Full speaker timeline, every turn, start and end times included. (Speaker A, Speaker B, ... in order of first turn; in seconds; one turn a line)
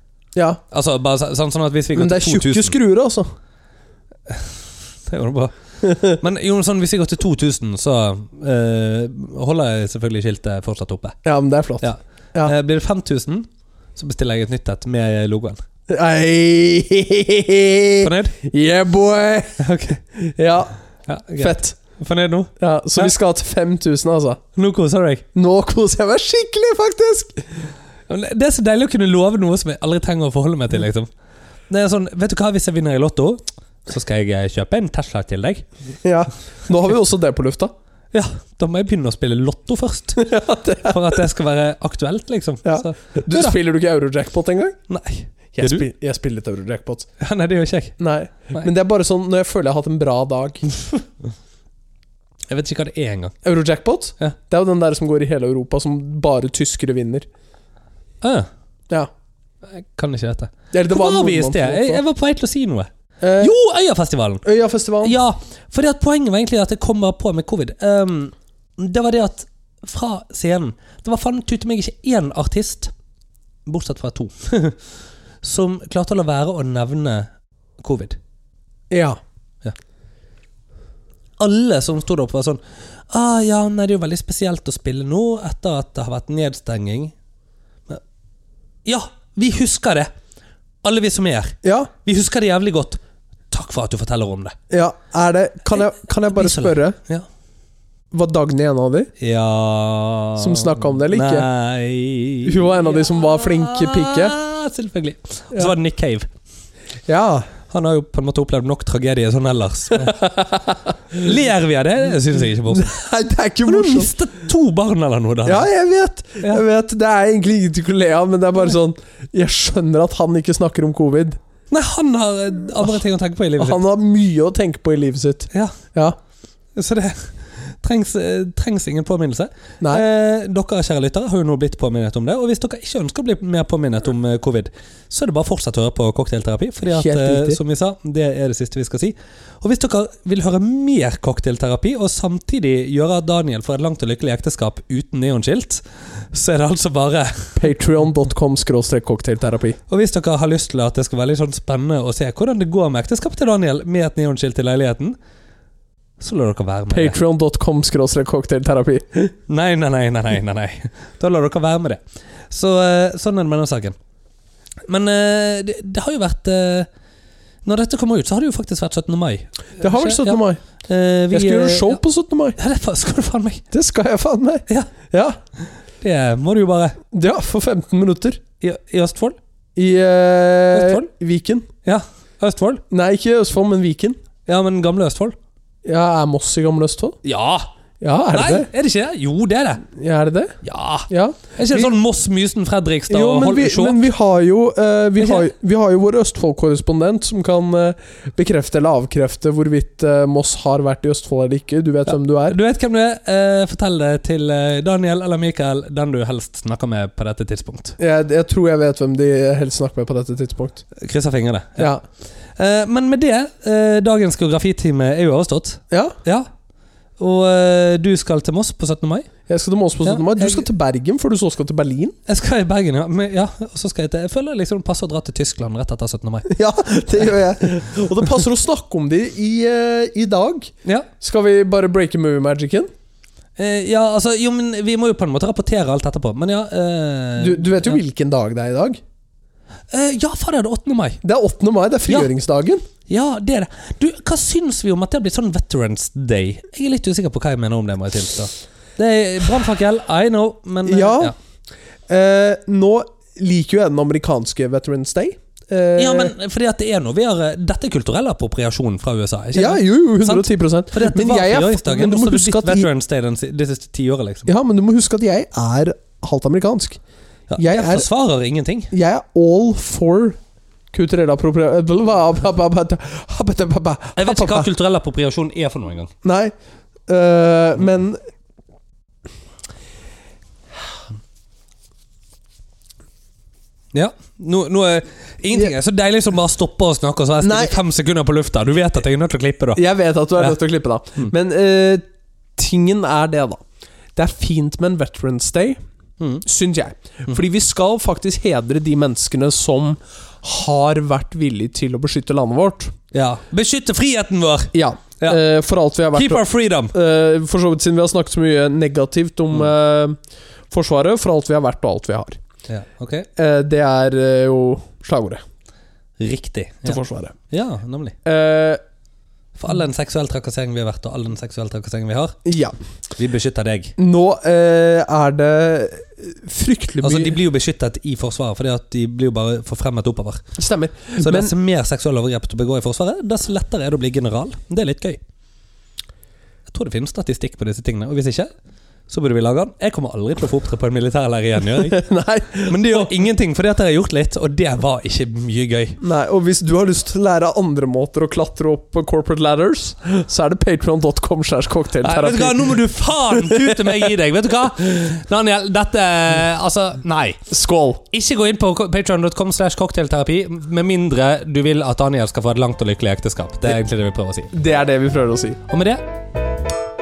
Speaker A: 0.3-0.6
Speaker B: 0.7-2.7
Speaker A: 1.9-3.3
Speaker B: 4.3-11.2
Speaker A: 5.8-6.2
Speaker A: 11.2-12.5
Speaker B: 11.8-15.6
Speaker A: 15.9-19.6
Speaker B: 18.0-18.3
Speaker B: 19.6-20.0
Speaker A: 20.1-20.7
Speaker B: 21.1-23.1
Speaker A: 21.4-21.8
Speaker A: 22.6-24.4
Speaker B: 24.5-25.2
Speaker A: 25.3-27.7
Speaker B: 28.1-31.1
Speaker B: 31.7-35.7
Speaker A: 36.0-37.7
Speaker B: 38.1-43.6
Speaker A: 40.1-41.2
Speaker A: 42.6-44.8
Speaker B: 44.9-45.8
Speaker A: 45.5-47.1
Speaker B: 47.2-48.0
Speaker A: 48.0-50.7
Speaker B: 52.5-53.3
Speaker A: 53.4-57.3
Speaker B: 58.2-58.5
Speaker B: 59.6-64.4
Speaker A: 60.7-62.0
Speaker A: 63.2-63.5
Speaker A: 64.4-65.2
Speaker B: 65.0-72.9
Speaker B: 73.7-74.8
Speaker B: 75.4-78.2
Speaker A: 78.9-79.2
Speaker B: 81.4-87.1
Speaker B: 88.8-90.1
Speaker B: 90.8-94.5
Speaker A: 91.6-91.9
Speaker A: 94.7-97.0
Speaker B: 95.7-97.3
Speaker A: 98.1-99.1
Speaker B: 99.2-106.3
Speaker A: 100.4-101.5
Speaker A: 102.4-104.3
Speaker A: 107.1-107.5
Speaker B: 107.7-110.4
Speaker A: 110.0-110.8
Speaker B: 111.1-113.0
Speaker A: 112.7-114.1
Speaker B: 113.6-115.7
Speaker A: 115.4-121.4
Speaker B: 121.7-123.8
Speaker A: 123.6-126.2
Speaker B: 126.7-147.7
Speaker A: 136.9-137.6
Speaker A: 147.6-149.8
Speaker B: 149.9-155.2
Speaker B: 156.2-157.2
Speaker A: 156.9-159.3
Speaker B: 159.5-163.9
Speaker B: 164.8-166.9
Speaker B: 167.6-172.0
Speaker A: 169.8-170.6
Speaker A: 171.3-172.6
Speaker B: 172.6-173.6
Speaker A: 173.7-175.4
Speaker B: 175.6-177.0
Speaker A: 177.1-178.4
Speaker B: 178.6-179.4
Speaker A: 179.8-181.7
Speaker B: 180.7-181.1
Speaker B: 181.8-182.8
Speaker A: 182.9-184.2
Speaker B: 184.4-185.3
Speaker A: 185.8-187.2
Speaker B: 187.2-187.7
Speaker A: 188.0-188.7
Speaker B: 188.3-189.8
Speaker A: 189.9-190.6
Speaker B: 190.6-194.0
Speaker A: 191.1-191.9
Speaker A: 193.1-202.6
Speaker B: 195.2-195.5
Speaker B: 202.1-207.9
Speaker A: 208.0-210.8
Speaker B: 210.9-212.0
Speaker B: 212.5-216.5
Speaker A: 215.9-216.2
Speaker B: 217.2-219.3
Speaker A: 219.5-222.2
Speaker B: 220.0-220.7
Speaker B: 222.2-226.5
Speaker A: 226.5-232.9
Speaker B: 233.6-238.0
Speaker A: 237.4-239.0
Speaker B: 239.9-241.2
Speaker A: 241.2-242.8
Speaker B: 243.1-251.3
Speaker A: 250.8-251.3
Speaker A: 252.1-256.3
Speaker B: 255.9-264.5
Speaker A: 259.5-262.9
Speaker A: 264.4-267.0
Speaker B: 267.5-268.9
Speaker A: 267.6-268.1
Speaker A: 268.9-270.4
Speaker A: 270.9-274.7
Speaker B: 274.2-276.1
Speaker A: 276.2-276.5
Speaker A: 277.1-278.2
Speaker B: 283.9-289.8
Speaker A: 287.4-287.8
Speaker A: 289.7-292.0
Speaker A: 292.6-293.6
Speaker A: 294.1-295.8
Speaker A: 296.4-302.9
Speaker B: 303.1-305.4
Speaker A: 304.7-310.2
Speaker B: 306.1-306.9
Speaker A: 310.7-312.4
Speaker B: 312.7-313.3
Speaker A: 313.4-315.4
Speaker B: 316.2-318.1
Speaker A: 316.9-317.3
Speaker A: 318.2-318.8
Speaker B: 319.5-322.4
Speaker A: 322.4-322.7
Speaker B: 323.1-323.9
Speaker A: 324.0-327.4
Speaker B: 327.0-330.4
Speaker A: 330.6-331.5
Speaker B: 331.2-335.2
Speaker B: 336.7-338.5
Speaker B: 339.1-342.0
Speaker A: 341.7-343.1
Speaker B: 342.6-346.0
Speaker A: 346.0-352.8
Speaker B: 352.0-357.4
Speaker A: 353.3-353.9
Speaker A: 357.5-358.0
Speaker B: 358.1-364.5
Speaker A: 364.5-365.6
Speaker B: 365.7-366.0